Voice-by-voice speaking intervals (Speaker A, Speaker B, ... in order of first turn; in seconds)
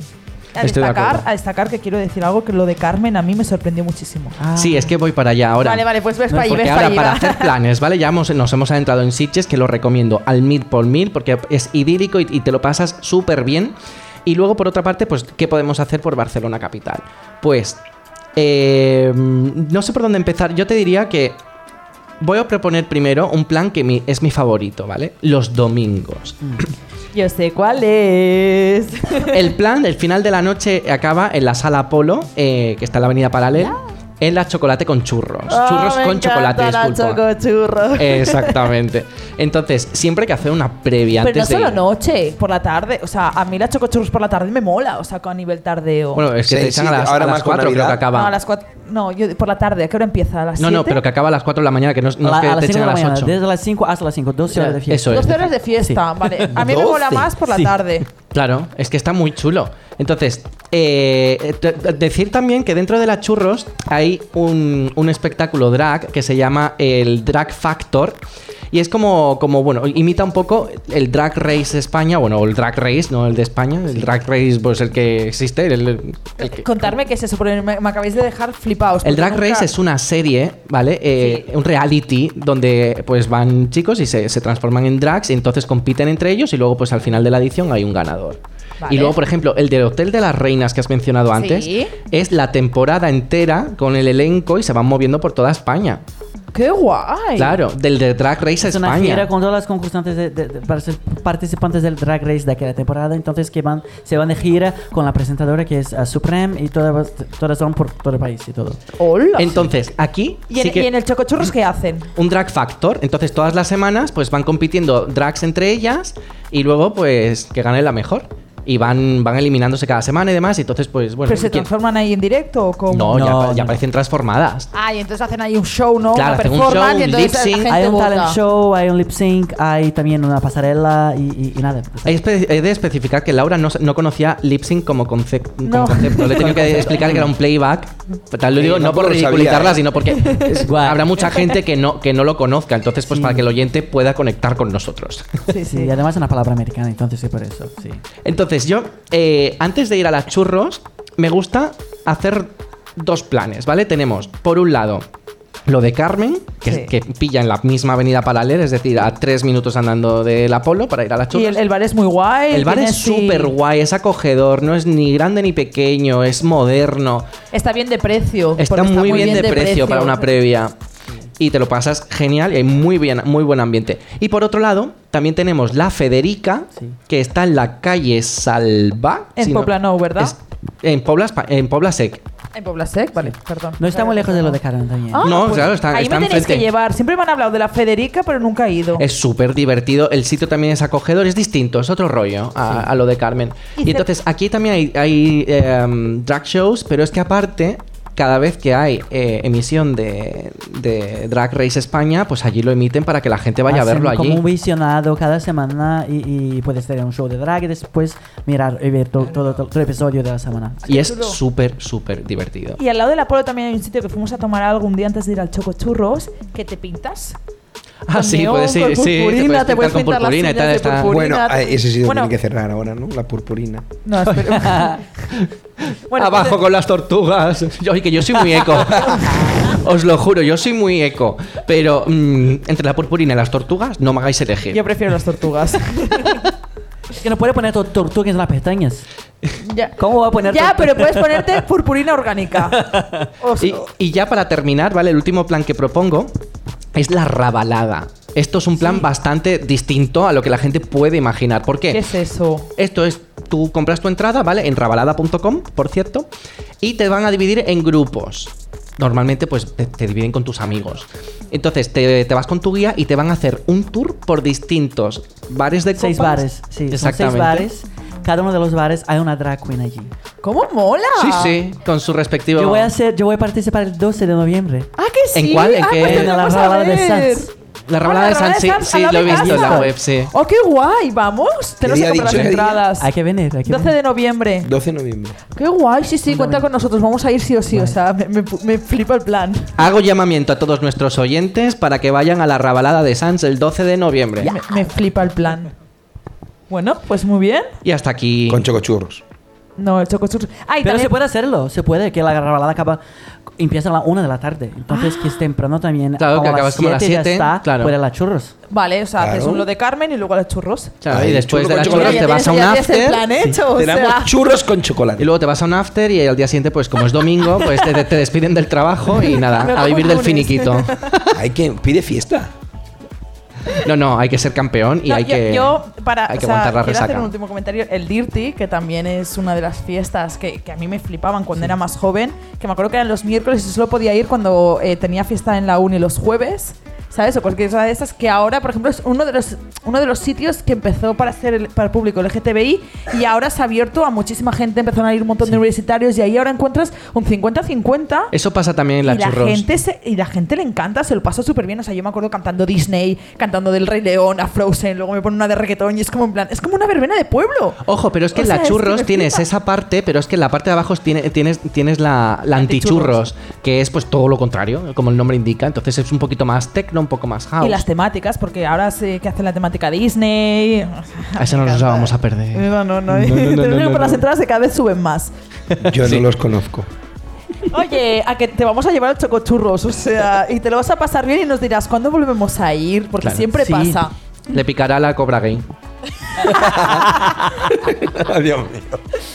Speaker A: 0.6-4.4, 5.6-7.5, 27.1-29.5, 35.5-38.7, 41.2-46.3, 48.1-51.0, 55.1-58.1, 76.4-79.7, 81.2-81.5, 88.8-89.2, 91.3-92.0, 96.5-97.6, 109.0-109.7, 110.5-112.1, 121.3-123.3, 124.7-128.4, 135.6-136.7, 140.1-140.6, 145.5-145.9, 161.3-163.5, 167.5-170.3, 179.4-180.3, 182.5-184.6, 185.1-189.0, 193.8-194.1, 210.9-211.4, 212.8-217.4, 218.1-222.3, 224.1-225.4, 226.1-226.6, 228.9-229.4, 234.7-236.5, 239.6-243.8, 251.9-252.7, 270.4-271.6, 275.0-277.5, 278.0-283.1, 283.7-284.7, 285.5-289.8, 294.4-295.7, 296.7-297.7, 299.8-301.1, 304.9-305.4, 308.7-311.0, 311.8-314.4, 319.1-321.2, 325.1-348.3, 349.0-357.8, 358.3-359.5, 362.5-363.2, 367.6-375.3, 377.7-384.1
Speaker B: 0.6-1.3, 4.6-13.8, 14.3-17.8, 18.4-21.4, 22.2-26.4, 29.3-37.2, 37.9-41.8, 46.1-48.4, 50.6-53.4, 54.5-55.4, 58.3-68.2, 68.7-76.9, 79.0-96.0, 97.4-99.3, 109.4-110.9, 112.2-121.7, 122.9-124.7, 126.2-127.8, 132.1-145.5, 148.2-155.1, 155.7-161.6, 162.5-167.3, 168.6-170.8, 171.4-182.2, 185.2-186.7, 189.0-204.4, 210.9-212.8, 218.1-221.2, 224.4-234.8, 243.6-246.3, 246.9-252.1, 252.8-256.3, 256.8-267.7, 271.2-272.9, 275.3-276.4, 277.9-280.3, 289.8-294.6, 297.8-298.7, 306.2-307.9, 311.0-313.2, 315.2-321.4, 323.7-327.3, 348.3-349.7, 357.9-367.9, 371.4-374.2, 375.7-376.3, 383.2-383.5, 384.5-385.7
Speaker C: 4.4-4.9, 52.2-56.0, 98.6-108.8, 123.1-123.8, 127.7-132.2, 136.3-137.3, 140.5-141.2, 143.1-143.5, 145.7-148.0, 183.8-185.6, 203.7-210.9, 237.2-239.0, 240.0-241.7, 242.7-243.3, 266.0-270.1, 272.5-274.9, 276.0-277.5, 279.2-279.9, 283.0-283.9, 286.3-286.7, 287.7-288.0, 300.8-303.0, 303.6-308.5, 383.6-384.0
Speaker D: 46.4-48.1, 56.5-57.3, 138.6-139.9, 221.1-224.0, 281.8-282.9, 284.6-285.4, 298.5-299.2, 309.2-309.7, 311.1-312.3, 313.7-315.3, 321.3-322.5, 375.8-376.9, 386.4-389.0